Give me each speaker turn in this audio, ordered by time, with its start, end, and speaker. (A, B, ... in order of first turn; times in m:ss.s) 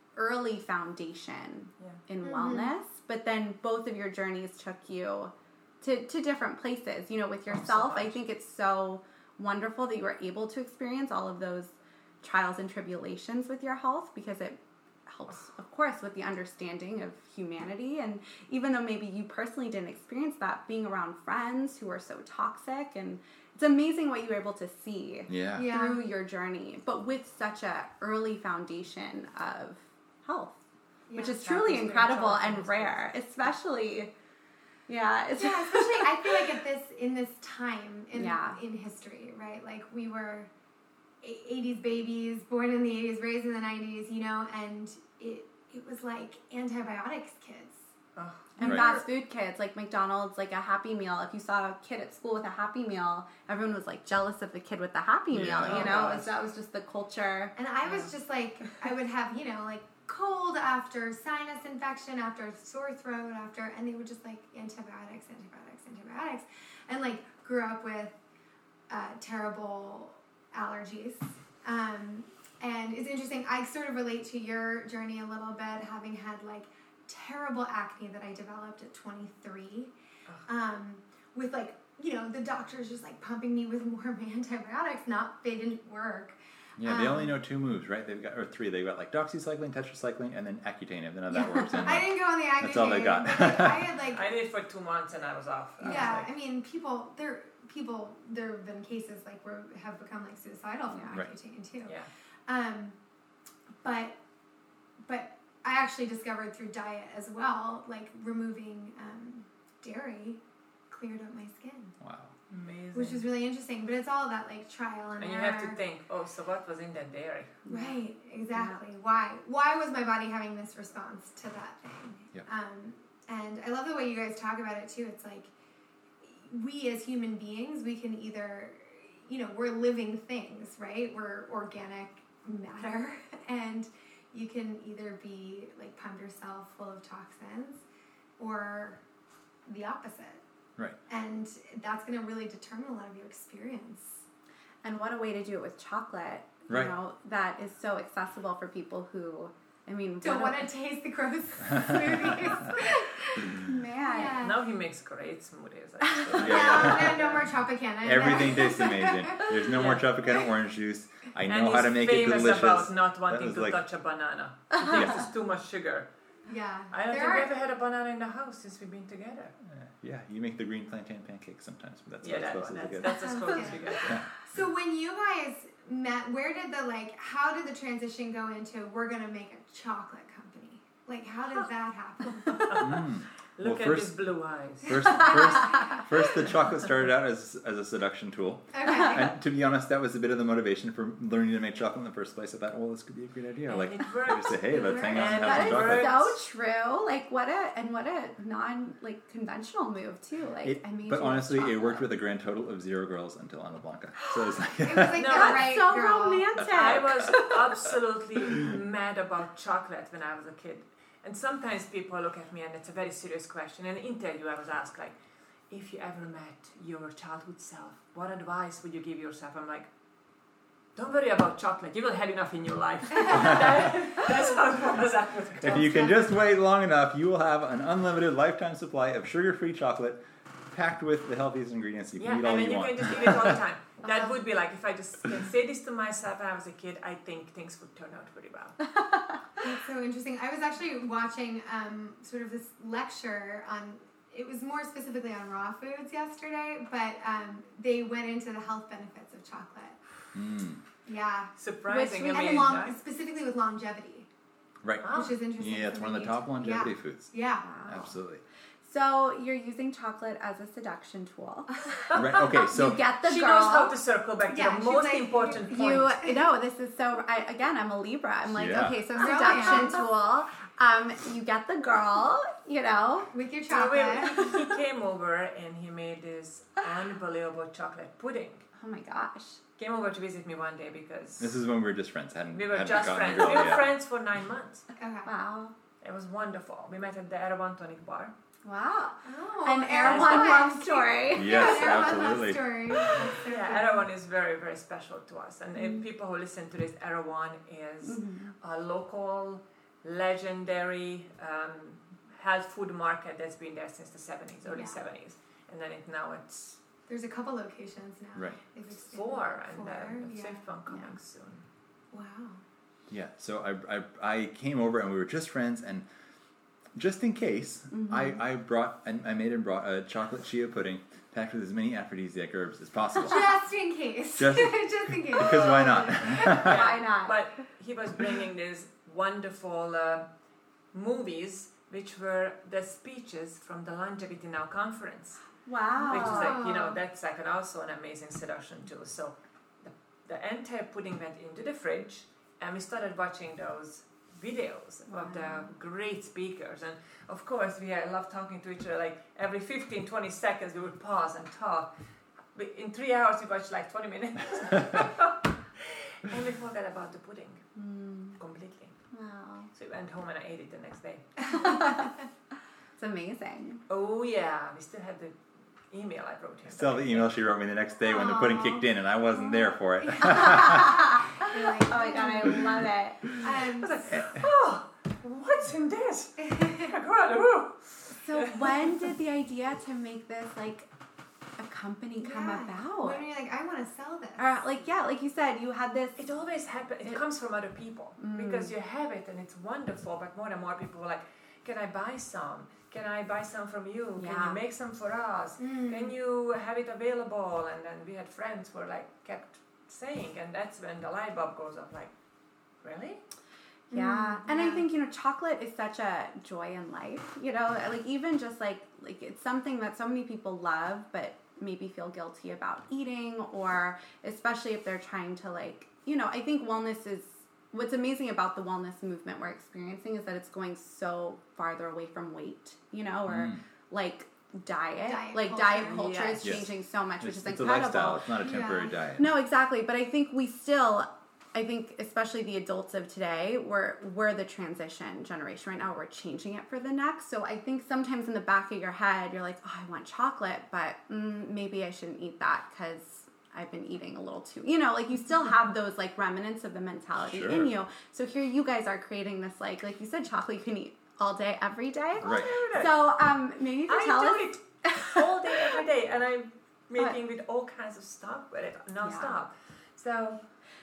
0:00.2-0:30.6 A
0:02.2-0:02.7 B
0:07.5-0:08.2 C
0:25.3-0:25.7 D
0:25.5-0:26.0 B
0:31.1-0:31.5 B
0:31.2-0:34.1 A
0:31.4-0:33.0 C
0:34.9-0:36.4 A
0:35.4-0:40.5 B
0:38.1-0:38.6 A
0:41.2-0:47.9 B
0:48.2-0:49.0 C
0:48.6-0:57.5 A
0:48.6-0:49.0 D
0:55.3-0:56.2 D
0:55.3-0:56.3 C
0:57.6-1:08.2 B
0:57.8-0:58.1 C
1:08.9-1:19.9 B
1:20.5-1:27.3 B
1:26.8-1:33.9 D
1:31.3-1:34.3 B
1:34.1-1:36.3 C
1:35.8-1:42.0 B
1:40.9-1:41.2 A
1:41.8-1:42.1 C
1:42.5-1:43.0 B
1:43.8-1:44.2 B
1:45.0-1:51.9 B
1:52.0-1:52.3 D
1:52.5-1:53.2 C
1:52.9-1:55.8 B
1:55.2-1:57.6 C
1:57.6-1:58.0 A
1:57.7-2:05.5 B
1:58.5-1:58.8 A
2:06.2-2:17.8 B
2:18.4-2:19.0 B
2:19.6-2:20.4 B
2:21.1-2:24.2 B
2:24.8-2:30.7 A
2:26.7-2:26.9 D
2:30.2-2:34.6 B
2:31.7-2:32.1 D
2:32.6-2:34.4 A
2:34.4-2:37.4 C
2:36.4-2:37.4 D
2:36.4-2:39.7 B
2:38.0-2:43.8 D
2:39.7-2:40.1 C
2:41.4-2:46.1 C
2:44.9-2:45.3 D
2:46.4-2:47.5 B
2:46.9-2:49.5 C
2:49.7-2:54.4 D
2:52.2-2:54.2 C
2:53.0-3:02.8 B
3:02.6-3:03.0 C
3:02.8-3:04.1 D
3:03.5-3:05.0 C
3:04.8-3:16.3 D
3:04.9-3:06.0 B
3:08.7-3:09.4 B
3:13.7-3:16.4 C
3:14.7-3:15.6 B
3:15.4-3:22.0 A
3:20.6-3:25.4 D
3:24.8-3:26.6 B
3:25.2-3:25.7 C
3:25.3-3:27.6 A
3:26.7-3:35.2 C
3:35.7-3:39.9 C
3:40.9-3:45.9 C
3:45.6-3:53.6 D
3:45.6-3:46.3 B
3:52.2-3:58.8 C
3:54.0-3:54.3 B
3:58.8-3:59.4 A
3:59.6-4:10.0 B
4:10.3-4:10.8 D
4:11.0-4:11.5 B
4:11.6-4:13.0 C
4:11.9-4:12.8 A
4:12.3-4:14.3 B
4:14.8-4:18.4 D
4:15.0-4:15.3 C
4:15.1-4:17.7 B
4:17.6-4:18.2 A
4:18.8-4:23.9 A
4:22.1-4:23.1 D
4:23.2-4:26.1 C
4:24.5-4:26.4 B
4:25.7-4:33.3 A
4:28.5-4:29.0 D
4:29.1-4:30.1 B
4:33.3-4:34.6 B
4:33.7-4:38.6 C
4:38.8-4:39.6 A
4:39.8-4:41.6 C
4:41.4-4:43.9 D
4:42.5-4:44.9 C
4:45.0-4:45.3 B
4:45.2-4:45.7 A
4:46.0-4:48.3 C
4:48.6-4:52.2 A
4:49.2-4:54.0 B
4:50.0-4:50.7 C
4:51.3-4:53.4 D
4:53.4-5:06.8 C
4:58.0-4:58.5 A
5:04.7-5:05.0 B
5:07.1-5:10.6 B
5:08.9-5:11.6 C
5:10.9-5:11.1 A
5:12.1-5:12.6 B
5:13.1-5:16.0 D
5:16.9-5:23.6 D
5:17.9-5:18.4 A
5:23.2-5:26.6 B
5:24.4-5:26.8 D
5:26.5-5:27.4 A
5:26.6-5:30.3 C
5:30.9-5:35.4 C
5:35.6-5:36.6 A
5:35.9-5:37.0 B
5:36.0-5:51.9 C
5:45.1-5:45.7 A
5:52.5-5:57.6 C
5:57.8-5:58.4 A
5:58.4-5:58.9 C
5:59.1-5:59.7 A
5:59.7-6:01.8 C
6:01.5-6:02.1 A
6:03.0-6:03.8 A
6:03.9-6:07.3 C
6:06.7-6:11.1 D
6:08.0-6:14.0 B
6:10.2-6:13.4 A
6:13.6-6:19.0 C
6:14.1-6:14.4 D
6:16.4-6:16.9 B
6:18.2-6:20.9 A
6:21.6-6:23.2 A
6:22.2-6:24.5 B
6:24.4-6:26.2 A
6:26.2-6:42.1 C
6:28.2-6:28.7 A
6:34.2-6:34.6 A
6:35.6-6:36.1 B
6:42.8-6:43.2 C
6:43.9-6:44.8 B
6:43.9-7:08.5 A
7:03.2-7:03.6 D
7:05.0-7:06.2 B
7:05.8-7:06.6 C
7:06.4-7:06.7 D
7:07.2-7:09.3 D
7:08.4-7:09.0 B
7:09.2-7:35.8 A
7:27.2-7:27.7 D
7:32.2-7:32.5 D
7:32.2-7:33.0 C
7:33.9-7:40.4 C
7:39.0-7:39.4 A